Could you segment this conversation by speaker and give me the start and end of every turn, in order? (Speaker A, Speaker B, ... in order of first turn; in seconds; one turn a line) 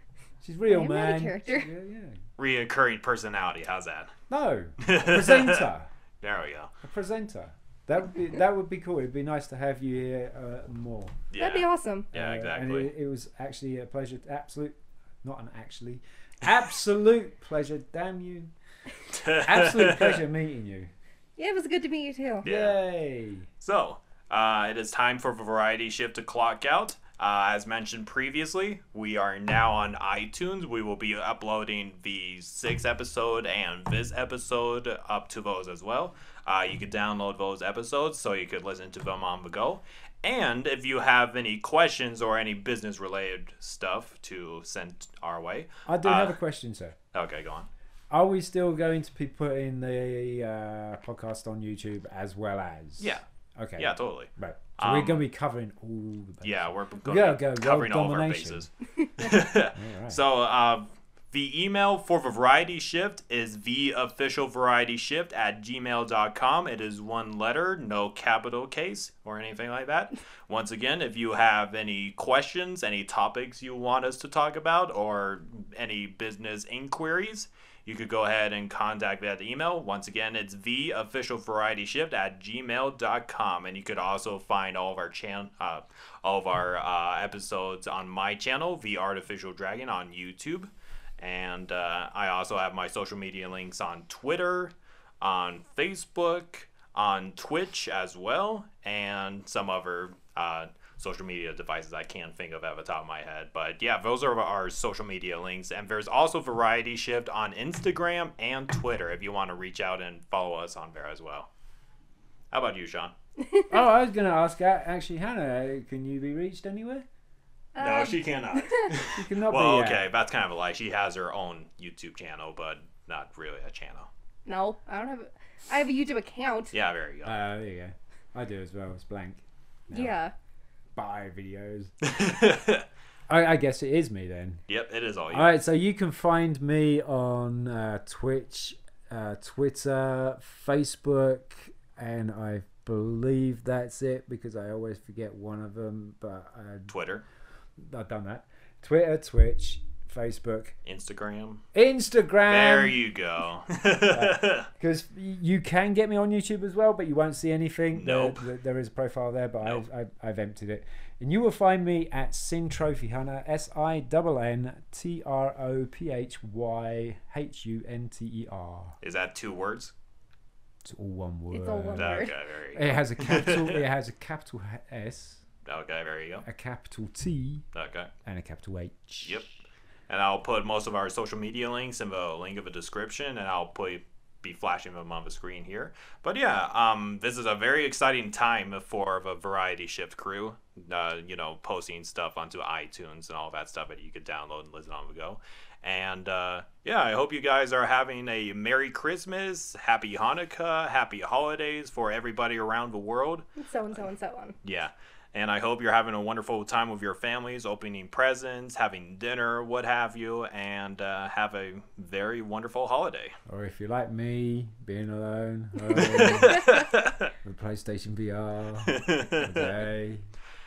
Speaker A: 0.4-2.2
Speaker B: 0.6-1.7
Speaker C: 2.4-4.1
Speaker A: 4.3-5.9
Speaker C: 4.8-5.7
Speaker C: 6.2-6.7
Speaker A: 6.8-11.2
Speaker C: 11.3-12.9
Speaker B: 11.4-12.1
Speaker A: 12.1-18.5
Speaker C: 19.1-20.2
Speaker A: 19.4-20.9
Speaker B: 21.4-22.4
Speaker C: 22.4-22.8
Speaker A: 22.4-23.5
Speaker C: 23.6-46.4
Speaker A: 45.9-47.0
Speaker C: 47.1-47.7
Speaker A: 48.1-58.7
Speaker C: 53.8-55.2
Speaker C: 56.4-111.5
Speaker A: 59.7-60.2
Speaker C: 112.5-113.1
Speaker B: 113.4-113.7
Speaker A: 113.7-117.0
Speaker B: 117.7-118.9
Speaker C: 117.8-124.1
Speaker A: 119.1-120.1
Speaker B: 124.5-126.7
Speaker C: 126.7-127.4
Speaker A: 127.2-130.2
Speaker B: 129.9-130.3
Speaker A: 130.9-131.9
Speaker C: 132.0-132.8
Speaker A: 133.3-134.6
Speaker C: 134.7-135.5
Speaker A: 135.3-146.9
Speaker C: 146.9-147.2
Speaker A: 147.8-150.7
Speaker C: 150.8-151.6
Speaker A: 151.7-153.0
Speaker C: 152.4-154.7
Speaker A: 154.1-168.9
Speaker C: 157.9-158.5
Speaker C: 169.0-169.9
Speaker A: 170.8-175.4
Speaker B: 171.5-172.3
Speaker C: 171.9-173.8
Speaker C: 175.6-176.4
Speaker A: 176.4-177.6
Speaker C: 177.7-178.1
Speaker A: 178.2-179.4
Speaker C: 179.2-179.5
Speaker C: 180.1-203.4
Speaker B: 203.6-204.6
Speaker C: 204.6-213.3
Speaker A: 213.5-216.8
Speaker C: 215.9-217.3
Speaker A: 217.4-220.2
Speaker C: 218.8-219.8